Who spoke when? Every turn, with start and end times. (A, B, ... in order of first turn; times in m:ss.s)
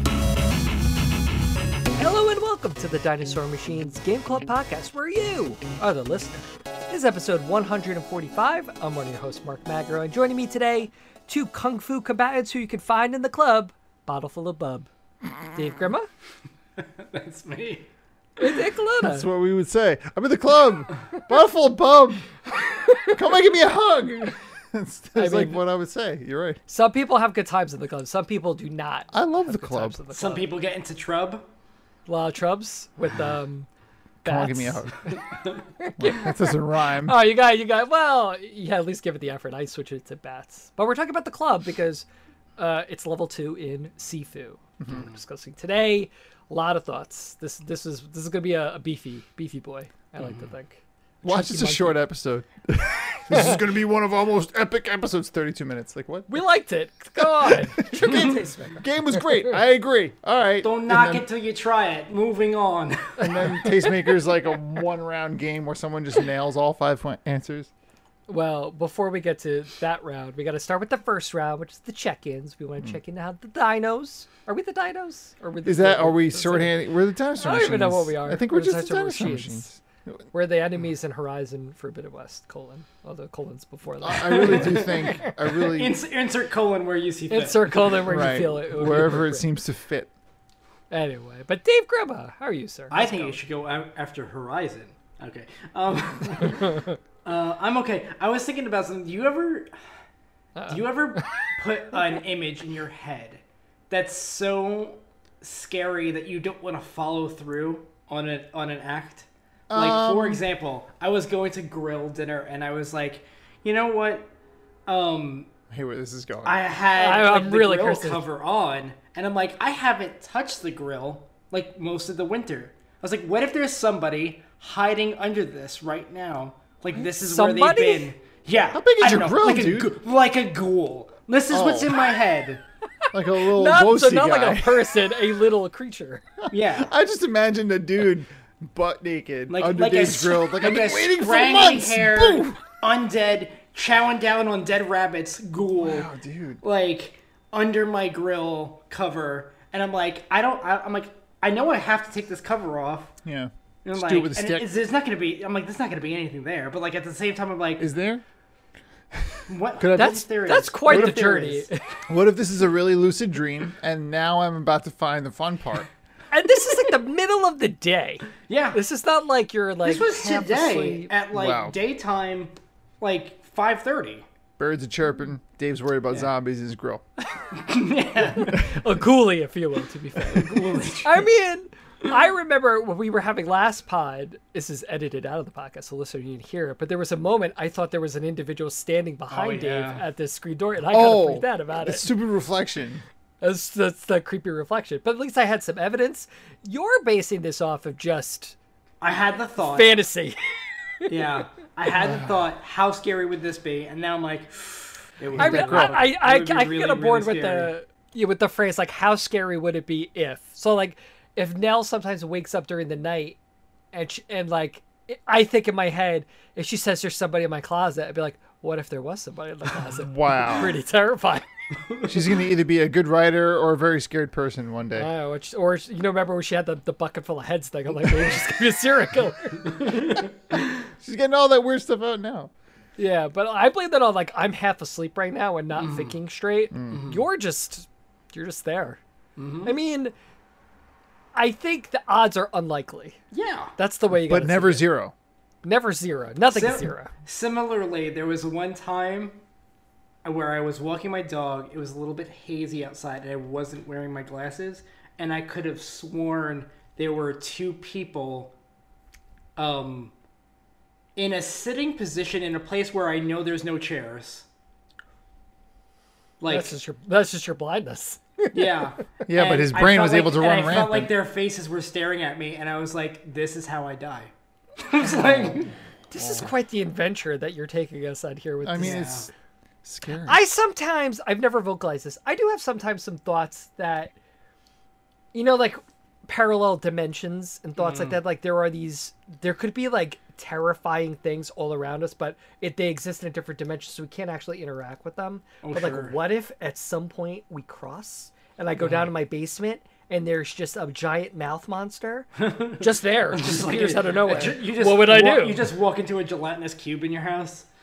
0:02.0-0:14.9 A
0:15.5-0:16.1 A
0:16.8-0:17.9 B
0:18.4-0:19.3 A
0:19.0-0:22.3 C
0:22.7-0:23.1 A
0:23.1-0:26.6 C
0:25.2-0:25.6 A
0:26.7-0:30.5 A
0:29.1-0:30.0 C
0:30.1-0:31.4 B
0:32.0-0:33.7 A
0:34.2-0:34.9 C
0:34.2-0:35.2 A
0:35.1-0:35.7 B
0:35.8-0:42.0 A
0:36.0-0:37.2 C
0:42.6-0:52.0 A
0:44.9-0:45.2 B
0:50.2-0:50.5 B
0:51.2-0:56.4 C
0:53.3-0:53.6 A
0:56.3-0:58.8 A
0:57.2-1:01.2 C
1:00.6-1:03.4 B
1:03.2-1:07.7 C
1:08.3-1:16.7 A
1:15.6-1:20.2 C
1:17.4-1:19.7 A
1:20.3-1:25.4 A
1:24.0-1:26.0 C
1:24.3-1:25.2 B
1:25.7-1:28.1 B
1:27.3-1:29.4 A
1:28.0-1:30.1 C
1:30.9-1:33.4 A
1:32.9-1:39.7 B
1:40.6-1:41.3 A
1:40.7-1:54.3 B
1:49.7-1:50.4 C
1:54.9-1:55.5 B
1:55.7-1:56.6 C
1:56.4-2:12.6 B
1:56.9-1:58.2 A
2:07.0-2:08.1 A
2:08.7-2:09.9 C
2:11.5-2:11.9 C
2:13.1-2:15.0 C
2:13.4-2:16.2 A
2:16.4-2:22.6 C
2:16.5-2:16.9 B
2:19.5-2:26.1 B
2:25.8-2:26.6 C
2:26.6-2:33.1 B
2:33.2-2:34.6 C
2:33.8-2:37.9 B
2:37.8-2:38.2 C
2:39.1-2:40.2 C
2:39.5-2:41.7 B
2:40.0-2:41.7 A
2:40.8-2:41.3 C
2:42.1-2:45.9 C
2:46.3-2:51.1 A
2:48.4-2:48.8 B
2:49.8-2:54.2 B
2:51.3-2:51.8 C
2:54.6-2:57.0 C
2:57.5-2:58.7 B
2:58.4-3:12.1 A
3:00.2-3:01.2 B
3:09.3-3:10.0 B
3:10.9-3:13.0 C
3:13.4-3:18.6 A
3:19.0-3:20.0 B
3:19.6-3:20.4 A
3:21.1-3:27.7 B
3:22.0-3:22.3 C
3:25.3-3:26.1 C
3:25.4-3:33.4 A
3:33.9-3:41.4 A
3:39.9-3:40.8 C
3:41.8-3:42.1 B
3:42.0-3:45.1 C
3:44.9-3:49.9 A
3:49.6-3:50.3 B
3:50.5-3:52.5 C
3:53.0-3:59.0 A
3:55.8-3:56.2 B
3:56.7-3:57.0 C
3:56.9-3:57.2 B
3:59.4-3:59.7 B
3:59.6-4:00.1 A
4:01.3-4:03.2 A
4:03.3-4:03.7 B
4:03.8-4:04.8 A
4:04.1-4:05.1 C
4:05.6-4:07.1 A
4:06.5-4:09.4 B
4:10.2-4:18.5 B
4:19.6-4:20.1 B
4:21.2-4:24.4 B
4:26.4-4:26.7 B
4:26.5-4:28.7 A
4:28.5-4:35.7 B
4:29.3-4:31.1 C
4:35.0-4:35.5 A
4:36.1-4:39.3 A
4:36.2-4:36.5 C
4:38.6-4:39.3 C
4:38.8-4:39.3 B
4:39.8-4:40.4 C
4:40.2-4:44.1 A
4:45.3-5:05.7 A
4:47.8-4:48.2 B
4:55.6-4:56.2 B
4:58.8-4:59.1 B
5:02.4-5:07.7 B